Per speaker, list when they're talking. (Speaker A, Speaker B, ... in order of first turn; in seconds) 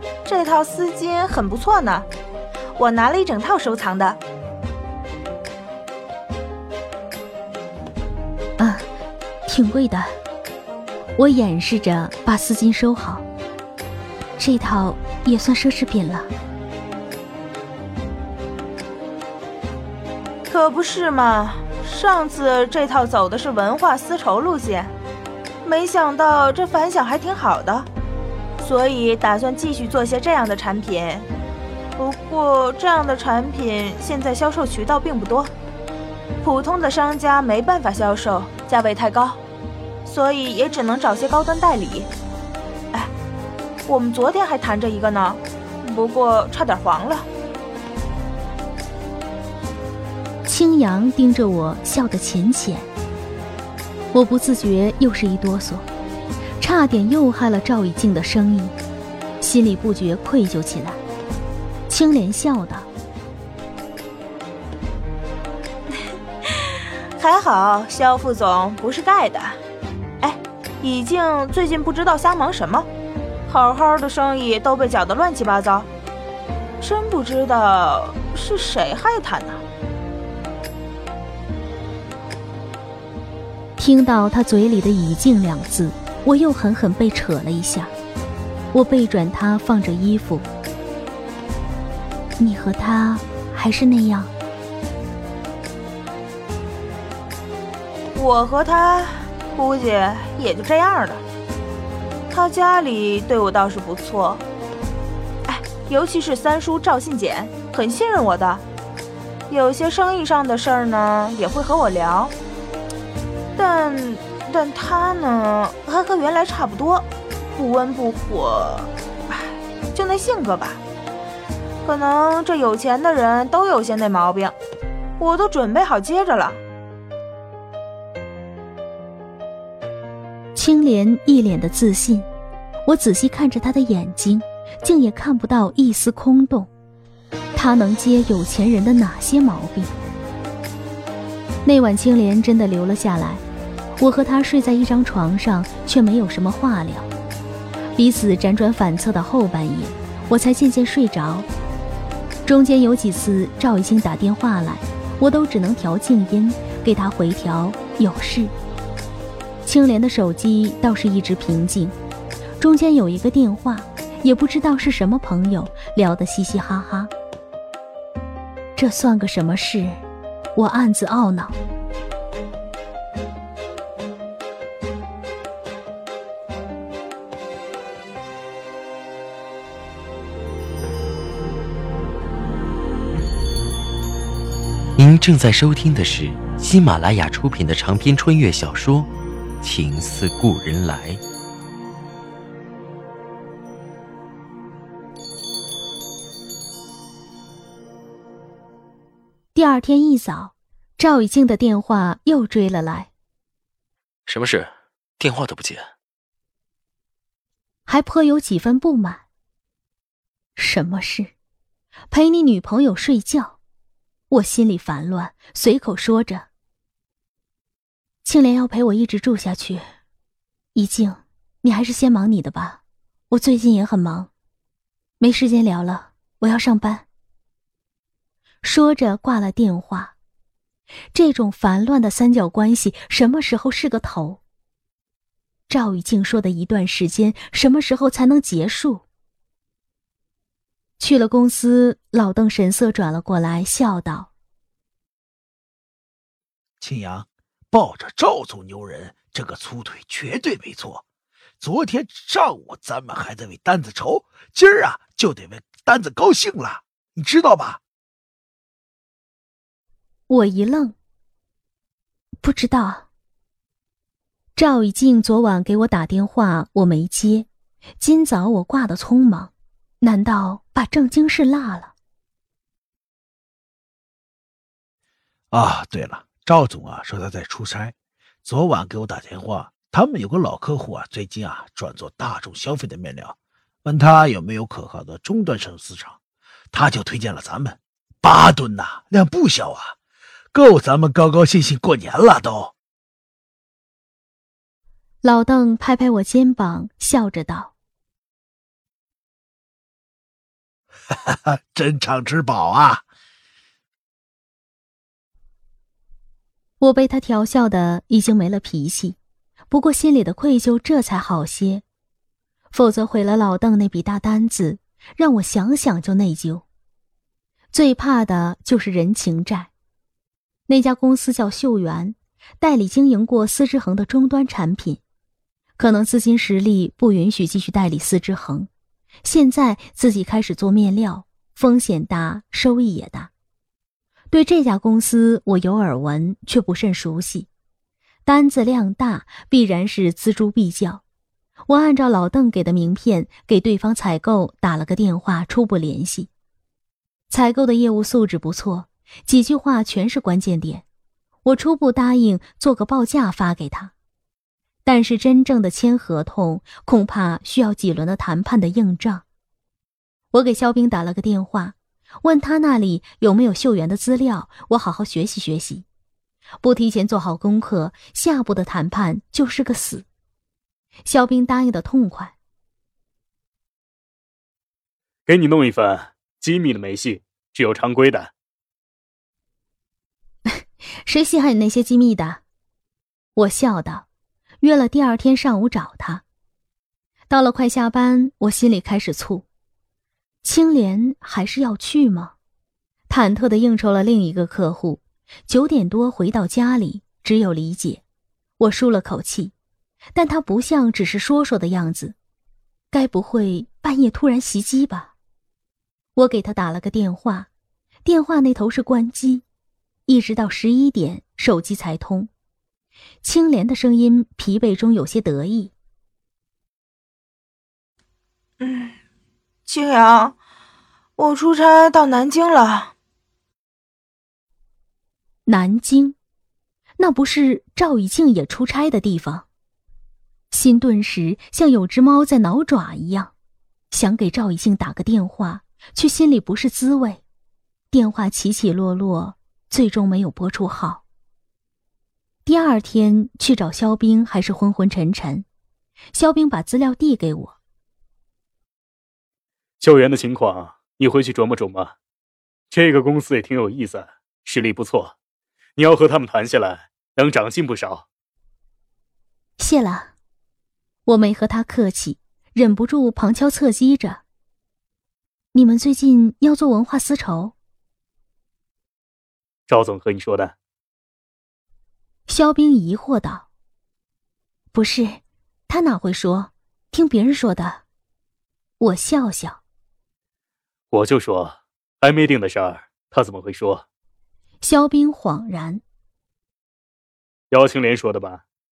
Speaker A: 0.2-2.1, 2.8-4.2, 20.5-24.9, 25.6-27.9, 28.6-31.3, 32.0-35.5, 36.4-39.4, 40.1-42.1, 43.9-47.3, 67.2-69.6, 70.2-72.9, 73.5-75.9, 76.8-79.6, 98.1-101.2, 102.3-104.4, 105.5-108.6, 109.5-112.3, 113.6-120.8, 121.8-124.6, 125.2-126.6, 418.6-419.0, 419.7-420.4, 421.2-422.9
Speaker B: 8.6-8.8, 9.5-10.1, 11.2-13.3, 14.4-16.3, 50.5-52.9, 54.1-55.9, 56.6-58.8, 59.4-61.0, 61.9-62.9, 83.8-87.9, 88.7-90.5, 92.4-94.3, 130.6-132.3, 132.9-136.7, 137.5-140.0, 141.7-143.4, 144.0-147.1, 148.0-151.5, 152.4-158.5, 159.6-161.9, 162.6-167.1, 168.8-170.0, 170.6-171.6, 199.6-203.1, 207.9-209.2, 210.6-211.3, 212.1-213.6, 214.3-216.5, 218.2-219.8, 220.8-224.3, 225.2-227.1, 228.6-230.2, 231.1-234.4, 235.7-239.1, 241.0-244.3, 260.3-261.0, 262.4-263.1, 264.6-267.5, 268.0-271.9, 295.2-297.7, 306.8-309.2, 309.7-311.8, 312.7-316.6, 317.7-319.7, 320.7-325.0, 325.8-328.7, 329.2-333.3, 334.3-337.5, 338.2-341.0, 341.7-346.3, 347.3-350.9, 351.4-353.9, 354.9-359.2, 360.3-365.9, 366.6-370.1, 371.1-372.4, 380.5-382.4, 383.4-384.1, 384.6-386.2, 387.3-389.5, 390.4-392.4, 393.1-398.0, 398.6-399.5, 400.1-402.2, 402.9-405.1, 406.2-407.5, 408.1-409.4, 410.1-412.3, 413.2-415.7, 425.5-426.2, 427.0-429.5, 430.5-433.3, 433.9-437.2, 437.9-441.0, 442.4-445.5, 446.1-447.6, 459.6-460.1, 461.1-464.2, 465.5-467.6, 472.3-473.5, 474.7-477.8, 478.8-479.6, 484.6-485.8
Speaker C: 185.0-189.1, 189.6-191.2, 204.3-205.9
Speaker D: 246.8-251.0, 251.6-257.8, 275.5-286.2, 286.7-290.0, 290.5-292.7, 301.3-303.1
Speaker E: 375.3-378.3, 449.8-451.9, 452.7-455.1, 455.8-458.1, 469.7-470.5, 480.9-483.8, 487.5-488.4